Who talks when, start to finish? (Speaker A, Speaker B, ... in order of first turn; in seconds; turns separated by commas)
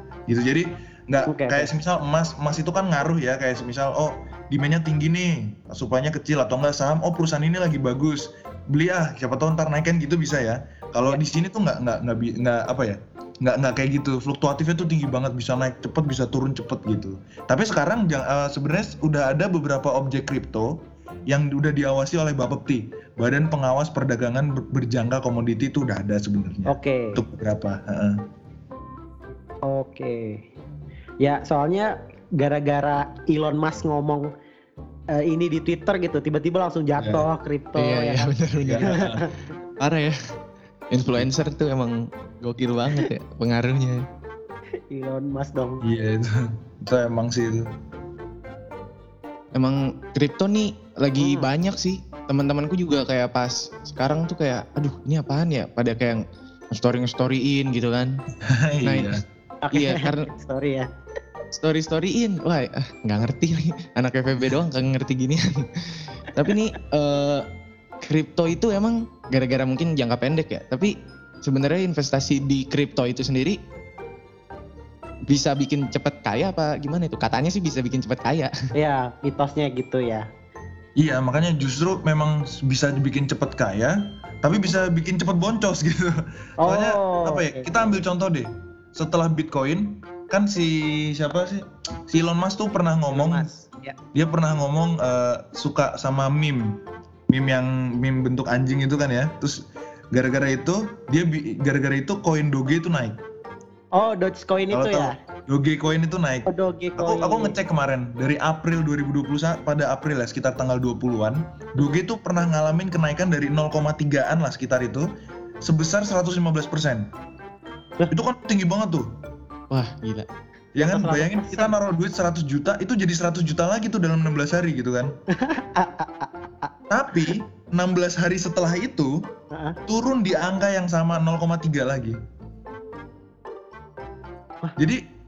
Speaker A: 0.3-28.2, Speaker B: 1.3-1.7, Speaker B: 26.7-27.2, Speaker B: 29.6-30.4, Speaker B: 31.2-34.3, Speaker B: 35.1-38.3, Speaker A: 37.0-37.3, Speaker C: 37.8-39.1, Speaker A: 38.6-39.2, Speaker B: 38.9-39.3, Speaker C: 39.8-40.1, Speaker C: 40.9-44.0, Speaker B: 44.9-45.8, Speaker A: 45.8-47.7, Speaker C: 49.6-58.2, Speaker B: 51.2-51.5, Speaker A: 58.4-59.2, Speaker C: 58.9-59.2, Speaker B: 59.6-60.9, Speaker C: 59.7-60.3, Speaker C: 61.5-67.5, Speaker C: 68.0-73.6, Speaker C: 75.3-78.5, Speaker B: 78.7-80.3, Speaker A: 81.0-93.5, Speaker B: 86.6-88.0, Speaker B: 93.1-94.0, Speaker A: 94.1-103.2, Speaker B: 104.0-105.1, Speaker A: 104.7-115.1, Speaker B: 106.5-107.6, Speaker A: 115.6-117.1, Speaker A: 118.1-119.1, Speaker C: 119.7-120.3, Speaker A: 120.8-125.2, Speaker B: 120.9-121.7, Speaker B: 125.3-126.7, Speaker A: 126.9-129.3, Speaker B: 129.5-129.8, Speaker A: 129.9-132.2, Speaker A: 134.8-135.1